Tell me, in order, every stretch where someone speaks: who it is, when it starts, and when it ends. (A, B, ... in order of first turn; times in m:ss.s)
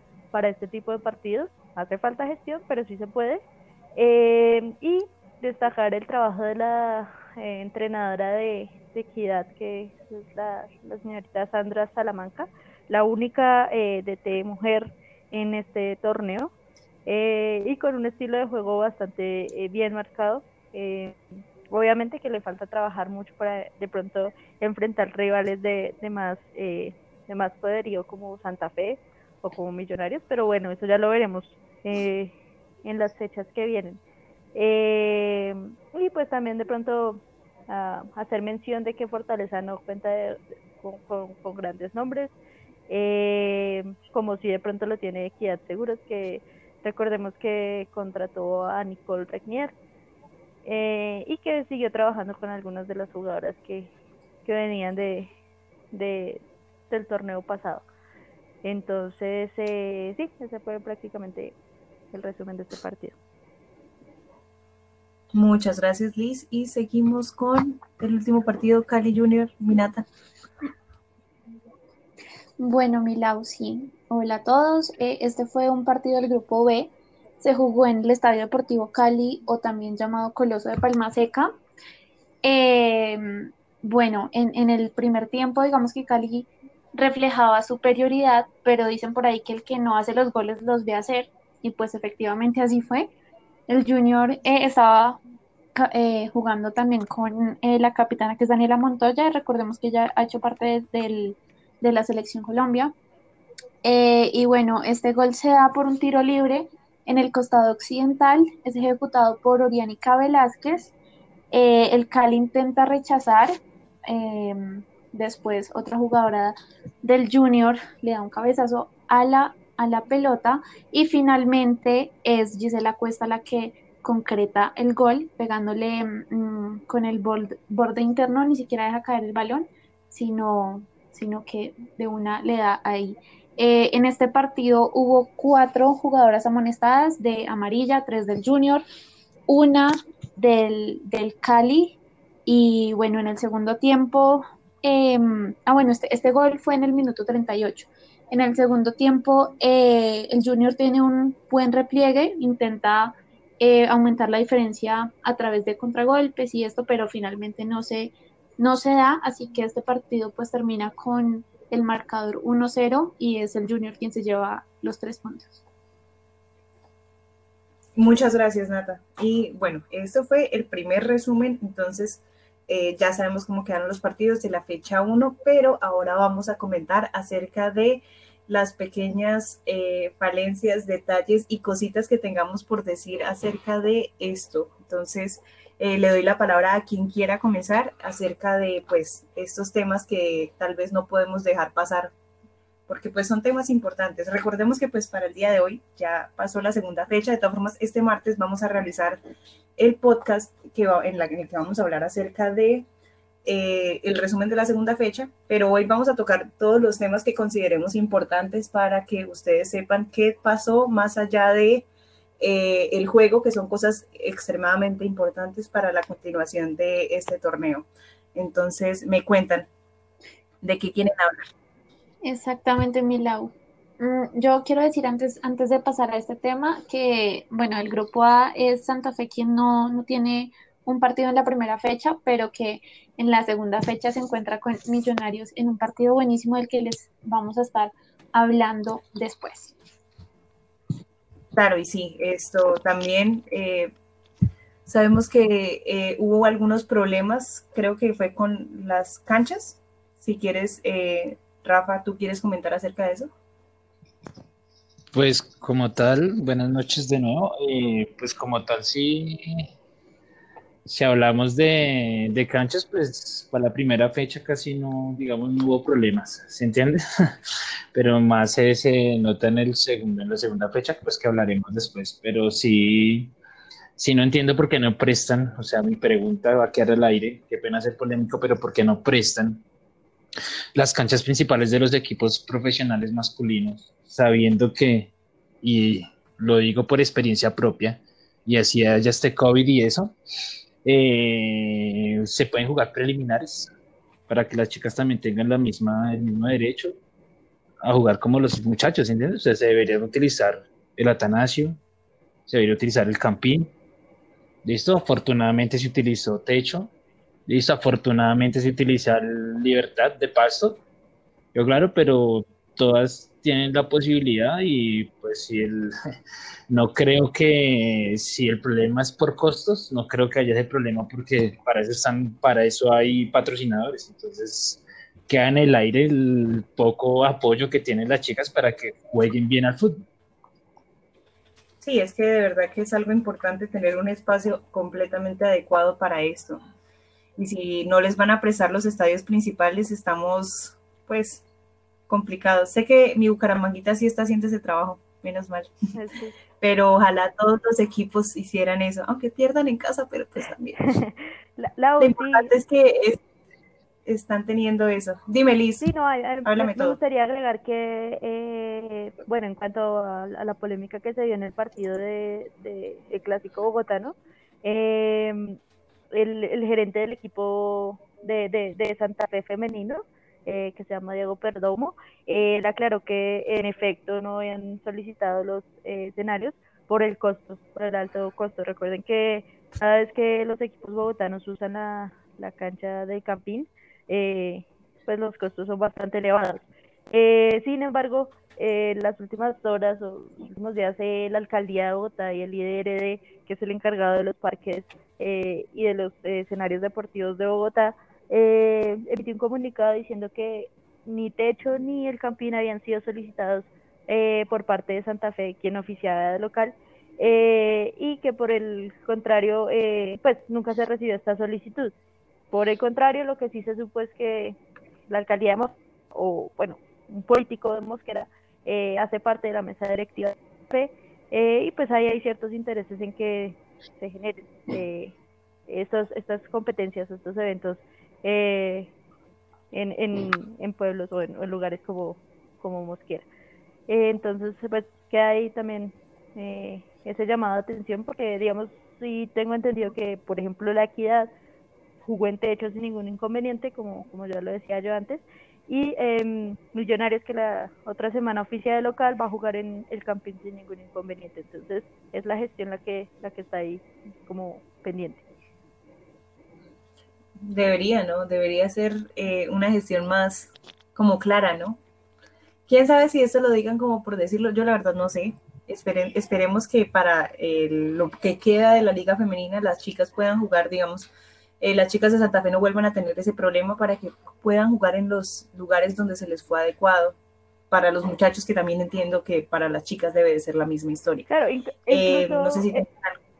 0:00.3-0:03.4 A
0:04.0-0:16.5 A
0:17.0-0:21.2 A
0:21.7-0:32.3 A
0:32.8-0:34.0 A
0:34.5-0:42.3 A
0:42.9-0:49.7 A
0:50.6-0:53.9 A
0:54.4-0:55.3 A
0:55.9-0:57.8 A
0:58.6-1:01.5 A
1:02.1-1:03.1 A
1:05.3-1:10.0 B
1:12.6-1:21.6 C
1:22.4-1:33.1 C
1:33.7-1:35.2 C
1:35.7-1:42.9 C
1:43.8-1:50.9 C
1:51.5-2:18.8 C
2:19.5-2:45.6 C
2:48.0-3:12.1 B
3:12.9-3:19.2 B
3:19.8-3:22.8 B
3:23.4-3:31.8 B
3:32.4-3:39.7 B
3:40.6-3:41.5 B
3:42.2-3:59.7 C
4:01.5-4:03.9 B
4:04.8-4:13.3 B
4:15.1-4:19.6 D
4:20.8-4:33.3 D
4:34.0-4:39.6 D
4:40.7-4:45.1 D
4:45.6-4:50.1 D
4:50.8-4:53.7 D
4:54.3-4:57.0 D
4:57.8-5:01.8 D
5:02.5-5:03.7 D
5:04.6-5:06.9 D
5:07.5-5:10.8 D
5:11.5-5:15.9 D
5:16.7-5:30.0 D
5:31.8-5:36.6 B
5:37.4-5:41.4 B
5:42.1-5:45.7 B
5:45.9-5:46.3 A
5:46.6-5:50.8 B
5:50.8-5:52.5 A
5:52.0-5:53.2 B
5:54.0-5:55.9 B
5:55.8-6:05.6 A
5:56.4-5:57.0 B
6:06.1-6:51.9 A
6:52.5-6:54.6 A
6:55.1-7:05.1 A
7:05.7-7:08.9 A
7:09.7-7:13.2 A
7:13.9-7:21.3 A
7:22.0-7:35.2 A
7:37.4-7:41.8 B
7:42.7-7:51.1 B
7:51.6-7:57.2 B
7:57.7-8:01.2 B
8:01.3-8:02.8 A
8:01.9-8:03.2 B